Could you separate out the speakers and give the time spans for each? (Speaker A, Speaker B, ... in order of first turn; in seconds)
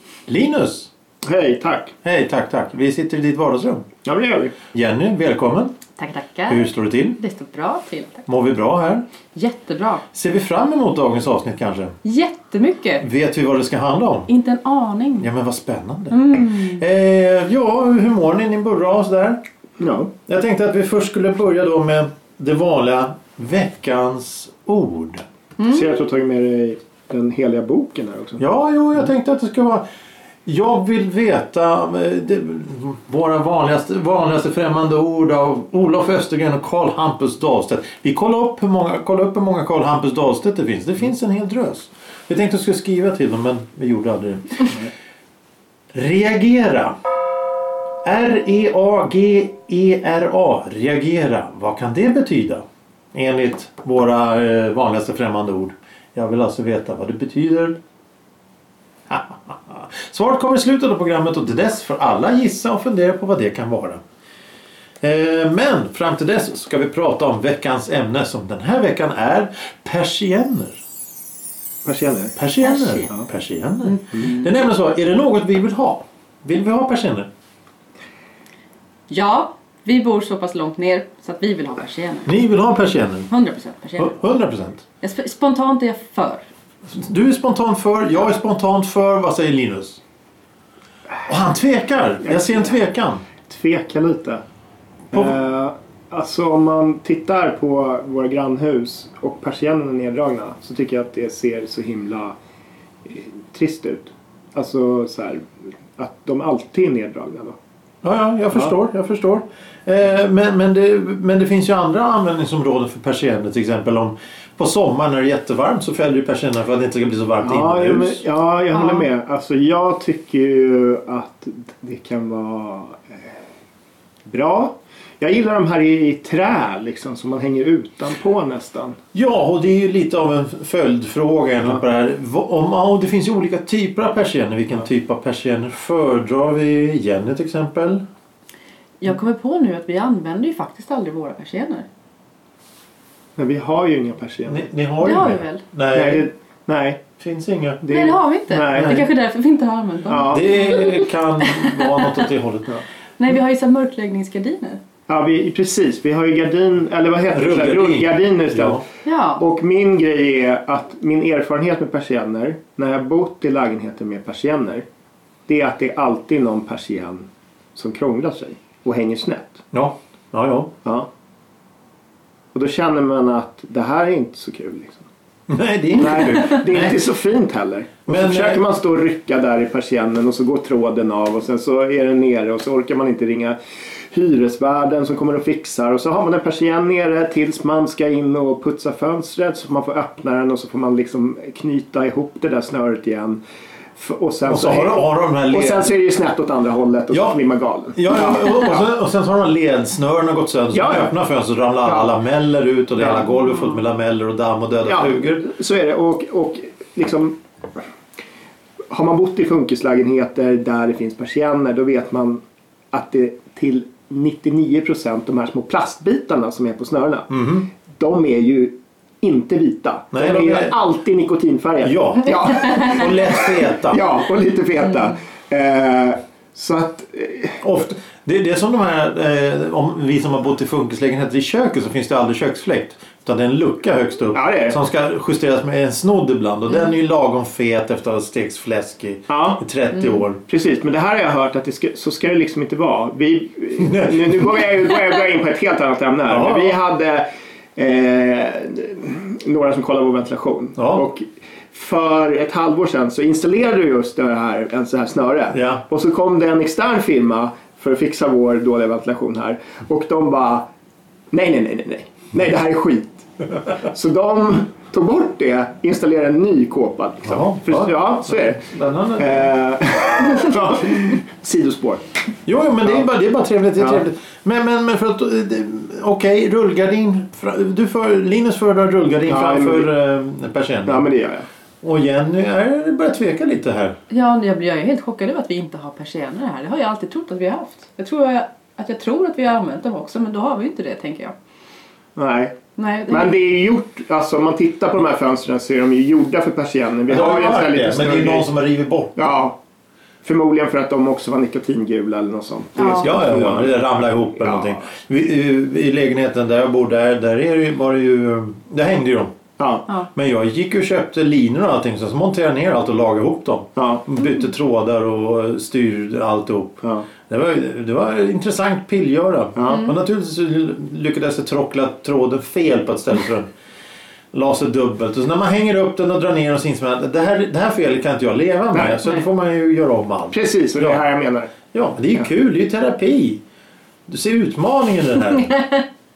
Speaker A: 0.3-0.9, 2.0-3.8, 4.7-5.8, 6.5-7.2, 8.3-9.1, 10.1-11.9, 13.0-14.3, 15.2-19.4, 20.3-25.2, 28.4-29.9, 30.5-44.8, 45.9-47.0, 48.0-57.8, 59.1-64.0, 65.0-70.8, 72.4-77.3, 82.3-83.3, 84.0-84.8, 86.9-90.0, 91.2-93.2, 108.0-118.2, 129.1-138.1, 144.5-146.3, 147.2-147.8, 148.7-149.1, 150.2-152.8, 157.3-158.8, 169.7-170.7, 175.5-177.0, 178.1-178.6, 194.5-195.9, 197.1-197.4, 197.9-205.5, 217.3-217.7, 220.1-220.8, 221.8-224.0, 227.6-240.4, 246.3-246.8, 250.8-251.1, 255.5-255.8, 267.2-269.6, 272.5-281.1, 281.8-284.0, 297.1-299.2, 302.9-309.4, 310.1-323.5, 324.3-331.0, 331.7-333.4, 334.1-335.6
Speaker B: 1.2-1.9, 4.0-4.5, 19.8-20.1, 25.7-28.4, 71.8-72.4, 92.2-92.8, 93.5-94.4, 95.1-102.4, 103.1-107.6, 117.4-123.3, 124.3-129.0, 143.4-144.7, 145.9-147.1, 147.8-148.9, 150.1-150.5, 155.1-158.8, 159.4-164.8, 165.5-169.6, 170.8-171.1, 172.5-175.1, 176.0-183.6, 184.1-193.4, 194.0-198.8, 200.7-201.2, 201.8-202.2, 203.0-203.3, 204.8-207.4, 208.9-217.3, 217.9-227.6, 234.3-234.8, 239.3-239.6, 240.4-260.7, 261.3-263.3, 263.8-268.6, 269.2-272.1, 273.8-274.1, 279.2-279.9, 280.9-281.5, 292.2-298.5, 299.1-299.6, 300.2-304.8, 309.6-309.9, 313.8-314.1, 316.8-317.1, 319.6-319.8, 328.7-329.0, 330.3-331.6
Speaker C: 6.0-8.3, 9.3-10.0, 12.0-13.0, 14.3-15.3, 16.1-16.8, 25.6-25.8, 72.6-73.2, 73.8-74.5, 79.1-82.4, 83.3-84.1, 85.0-86.4, 118.7-119.1, 139.0-141.9, 145.0-145.6, 147.9-152.3, 153.2-154.8, 159.0-159.4, 239.9-240.2, 284.1-291.3, 292.8-293.4, 302.8-303.2, 319.6-320.0, 335.5-335.8